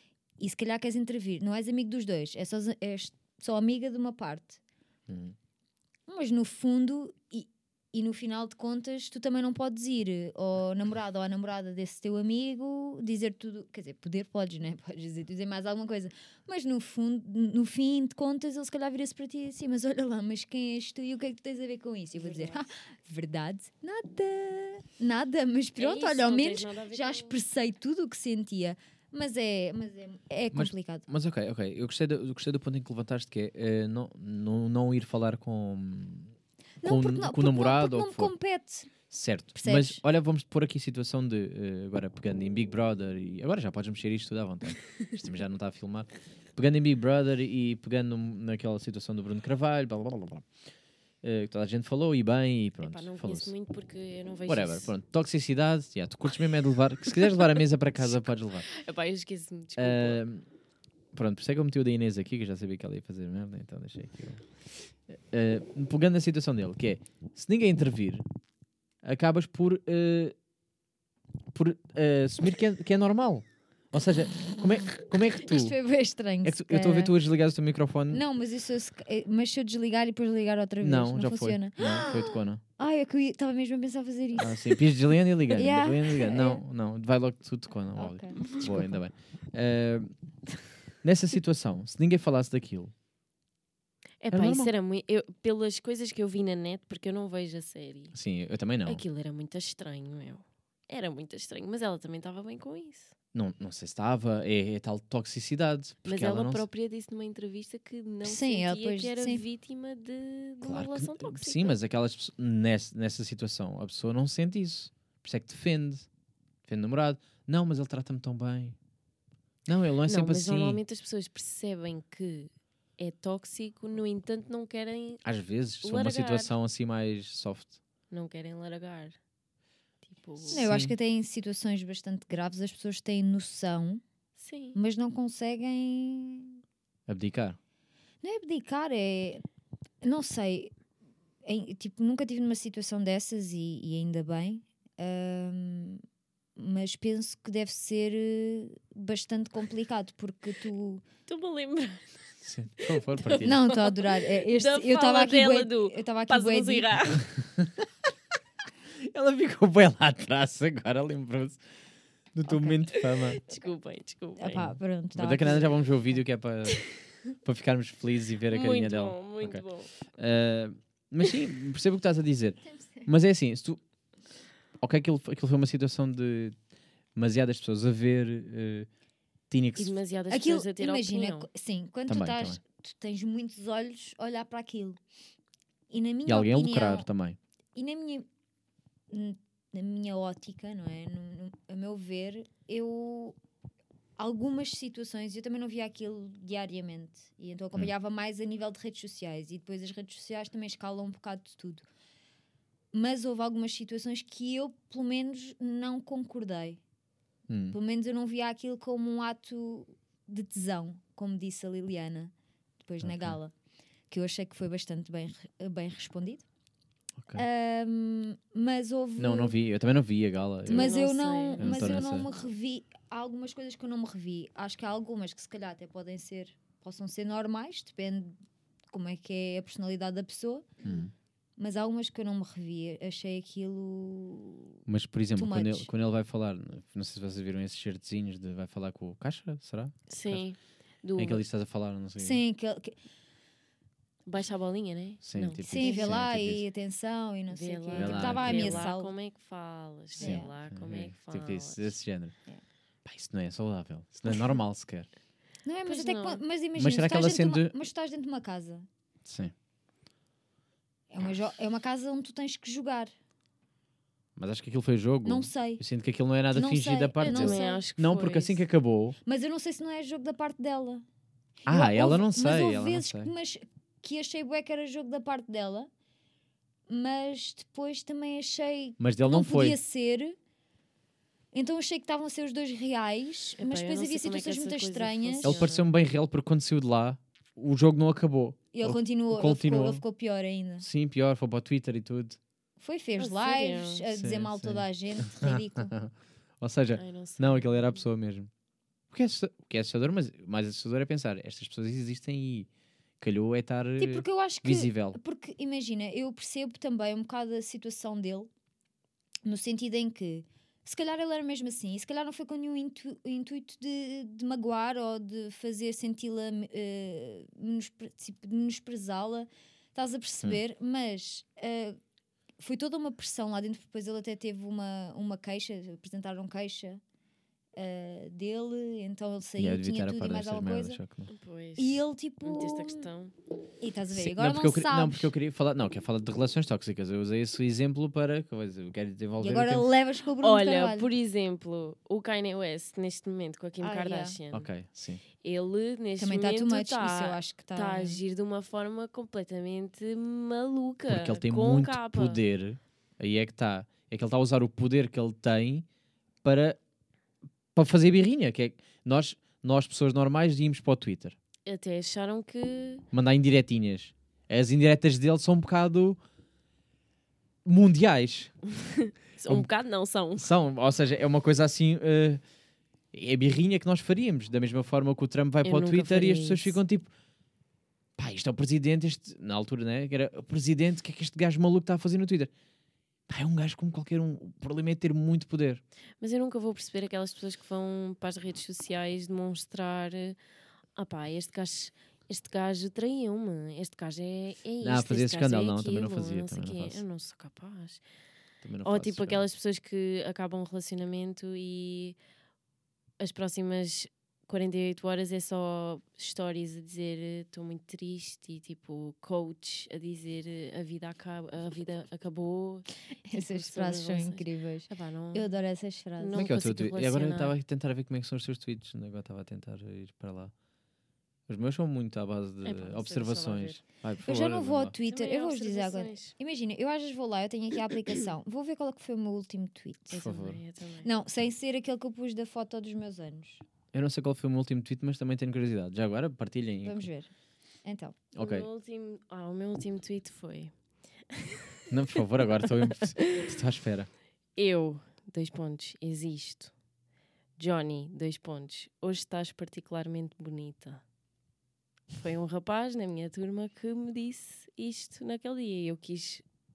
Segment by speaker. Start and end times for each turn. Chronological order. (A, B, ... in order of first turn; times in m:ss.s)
0:00.4-0:04.6 A
0:05.1-0:05.3 B
0:06.1-0:31.0 A
0:22.1-0:22.6 C
0:25.8-0:27.4 C
0:30.5-0:38.3 B
0:36.8-0:38.9 A
0:39.1-0:50.4 B
0:39.5-0:40.0 A
0:51.2-0:53.5 B
0:52.8-0:54.9 C
0:54.5-0:58.7 B
0:57.2-0:57.5 C
0:58.7-1:00.2 C
0:59.8-1:00.4 B
1:01.1-1:04.4 B
1:05.1-1:08.2 B
1:09.0-1:10.3 B
1:11.5-1:15.8 B
1:15.4-1:17.1 A
1:16.4-1:18.2 B
1:18.1-1:24.8 A
1:20.8-1:22.6 B
1:24.4-1:30.1 B
1:25.5-1:26.6 A
1:28.0-1:29.0 A
1:31.0-1:32.9 B
1:34.2-1:38.1 C
1:34.3-1:34.7 B
1:38.1-1:39.0 B
1:38.8-1:43.1 C
1:43.3-1:46.6 B
1:46.0-1:51.8 C
1:48.2-1:49.4 A
1:50.6-1:56.1 B
1:56.6-1:58.8 B
1:59.7-2:00.8 B
2:00.1-2:05.2 C
2:05.2-2:07.8 B
2:05.8-2:06.5 C
2:08.1-2:09.2 C
2:10.1-2:10.6 C
2:10.5-2:14.0 A
2:10.5-2:10.9 B
2:14.4-2:14.8 C
2:14.7-2:16.6 A
2:17.1-2:17.6 B
2:18.2-2:19.4 A
2:20.0-2:20.7 A
2:21.4-2:26.0 A
2:26.6-2:31.0 A
2:31.3-2:32.2 C
2:32.4-2:33.6 B
2:32.8-2:37.3 C
2:33.3-2:37.0 A
2:39.0-2:41.6 B
2:42.3-2:43.4 B
2:42.5-2:42.7 A
2:42.9-2:44.7 C
2:44.4-2:45.8 A
2:45.2-2:46.9 B
2:47.4-2:53.8 B
2:48.5-2:49.9 C
2:52.6-2:53.1 A
2:54.8-2:56.6 B
2:57.1-2:58.9 B
2:59.5-3:00.0 B
2:59.8-3:01.5 C
3:00.3-3:05.0 A
3:02.1-3:02.6 B
3:05.9-3:07.1 A
3:06.2-3:07.4 B
3:07.7-3:08.3 A
3:09.1-3:13.4 A
3:14.2-3:21.8 A
3:22.9-3:26.8 A
3:27.5-3:27.8 B
3:27.7-3:32.3 A
3:32.8-3:33.5 A
3:33.0-3:33.4 B
3:34.1-3:36.4 A
3:37.3-3:39.6 A
3:39.2-3:41.0 B
3:40.7-3:42.1 C
3:40.7-3:48.4 A
3:41.6-3:42.3 B
3:48.9-3:50.7 A
3:50.8-3:51.1 B
3:51.6-3:54.8 A
3:54.9-4:00.5 B
3:55.3-3:55.9 A
4:00.1-4:01.4 C
4:01.2-4:02.4 B
4:02.2-4:03.0 A
4:04.2-4:06.2 C
4:05.2-4:06.6 B
4:05.7-4:09.1 A
4:07.5-4:11.9 C
4:07.9-4:08.9 B
4:10.2-4:10.5 A
4:10.2-4:12.3 B
4:13.0-4:15.1 B
4:15.6-4:18.9 A
4:15.8-4:16.4 C
4:16.8-4:17.7 B
4:19.2-4:19.5 B
4:21.1-4:23.1 A
4:24.4-4:29.2 B
4:25.2-4:25.8 A
4:26.5-4:27.8 A
4:27.2-4:28.6 C
4:29.2-4:31.0 A
4:31.6-4:33.3 B
4:31.7-4:35.9 A
4:36.9-4:40.4 A
4:39.0-4:39.8 B
4:41.5-4:45.7 A
4:43.6-4:45.9 C
4:45.4-4:50.0 B
4:48.7-4:50.8 A
4:50.8-4:52.4 B
4:52.8-4:55.9 A
4:53.2-4:54.1 C
4:54.1-4:58.5 B
4:57.0-4:58.0 C
4:59.1-5:02.7 B
5:03.2-5:05.2 B
5:04.0-5:08.5 A
5:09.4-5:22.0 A
5:22.6-5:27.0 A
5:27.7-5:31.0 A
5:29.6-5:31.3 B
5:31.3-5:33.3 C
5:31.8-5:33.1 A
5:33.8-5:35.3 A
5:34.1-5:39.9 B
5:39.4-5:41.1 A
5:40.4-5:44.7 C
5:43.8-5:44.4 A
5:44.5-5:45.2 B
5:45.4-5:52.4 C
5:46.2-5:48.2 A
5:51.1-5:55.8 B
5:56.4-5:56.8 B
5:57.7-6:01.4 B
6:01.6-6:03.0 C
6:03.1-6:06.2 B
6:07.6-6:08.5 B
6:08.9-6:10.5 C
6:10.4-6:12.4 B
6:13.1-6:17.1 B
6:15.6-6:16.8 C
6:18.2-6:22.5 B
6:23.3-6:25.8 B
6:26.2-6:30.4 C
6:31.0-6:38.0 C
6:34.8-6:37.0 B
6:38.6-6:39.4 B
6:38.8-6:42.2 C
6:43.2-6:55.5 C
6:53.2-6:56.5 A
6:56.2-6:57.5 C
6:56.3-7:00.5 B
7:01.5-7:04.9 B
7:02.6-7:03.8 C
7:04.2-7:10.2 A
7:05.0-7:06.3 C
7:10.1-7:11.1 C
7:10.2-7:10.6 B
7:11.0-7:13.6 A
7:13.9-7:17.1 B
7:16.8-7:17.3 A
7:17.8-7:18.2 A
7:18.3-7:18.7 B
7:18.4-7:20.7 C
7:21.3-7:21.7 C
7:21.9-7:24.1 B
7:22.6-7:23.2 C
7:24.6-7:26.7 C
7:27.6-7:31.0 C
7:32.1-7:36.4 C